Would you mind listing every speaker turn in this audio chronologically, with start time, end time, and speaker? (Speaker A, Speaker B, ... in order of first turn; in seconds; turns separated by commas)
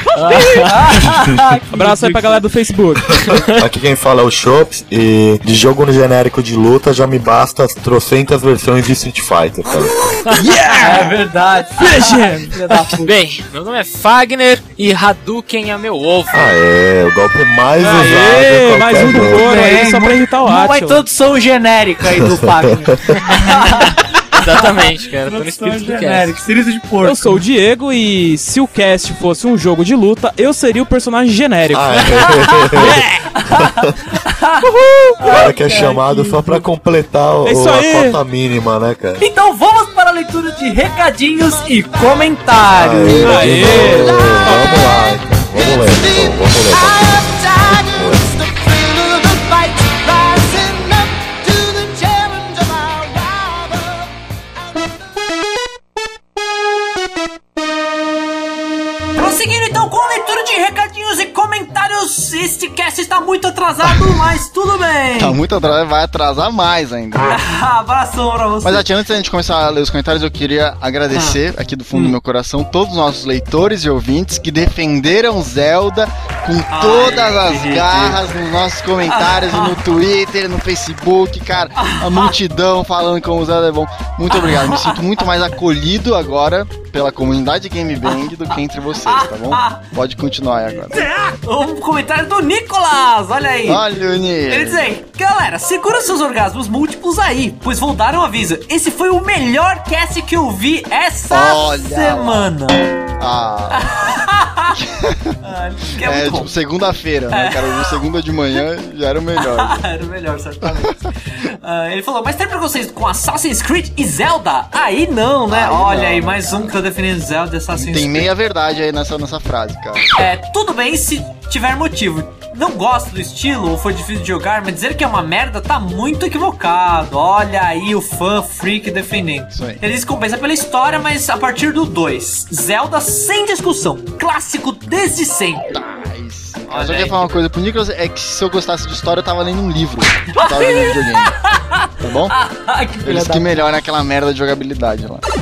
Speaker A: 0.1-0.8, Speaker B: 0.3-2.4, Speaker C: 1.7-3.0, Speaker D: 3.5-10.2, Speaker A: 10.2-11.0, Speaker C: 10.4-10.9, Speaker B: 10.7-13.1, Speaker C: 11.8-12.6, Speaker A: 13.0-16.5, Speaker D: 16.3-19.4, Speaker C: 17.8-21.0, Speaker B: 19.2-27.4, Speaker A: 23.2-26.4, Speaker C: 27.0-33.3, Speaker D: 31.7-34.0, Speaker B: 33.3-34.6, Speaker D: 35.0-39.2, Speaker B: 35.2-36.6, Speaker C: 37.4-38.2, Speaker B: 39.2-43.5, Speaker D: 42.7-48.3, Speaker C: 43.2-45.0, Speaker B: 51.7-52.3, Speaker B: 59.1-65.4, Speaker E: 63.8-64.4, Speaker E: 65.2-67.4, Speaker B: 67.3-68.9, Speaker E: 68.6-91.1, Speaker B: 76.7-78.2, Speaker B: 79.1-79.8, Speaker B: 81.8-82.3, Speaker B: 84.3-85.2, Speaker B: 89.0-89.8, Speaker B: 90.9-93.8, Speaker E: 93.6-94.8, Speaker B: 94.5-102.8, Speaker E: 101.3-102.5, Speaker E: 103.2-104.0, Speaker B: 103.7-104.8, Speaker E: 104.7-105.3, Speaker B: 105.4-106.5, Speaker E: 106.0-109.8, Speaker B: 107.3-107.9, Speaker B: 109.3-118.3, Speaker E: 115.5-116.7, Speaker E: 117.7-120.1, Speaker B: 120.2-135.7, Speaker E: 129.5-129.8, Speaker E: 135.7-141.3, Speaker B: 136.7-137.4, Speaker B: 140.3-143.6, Speaker E: 142.0-142.3, Speaker E: 143.0-145.2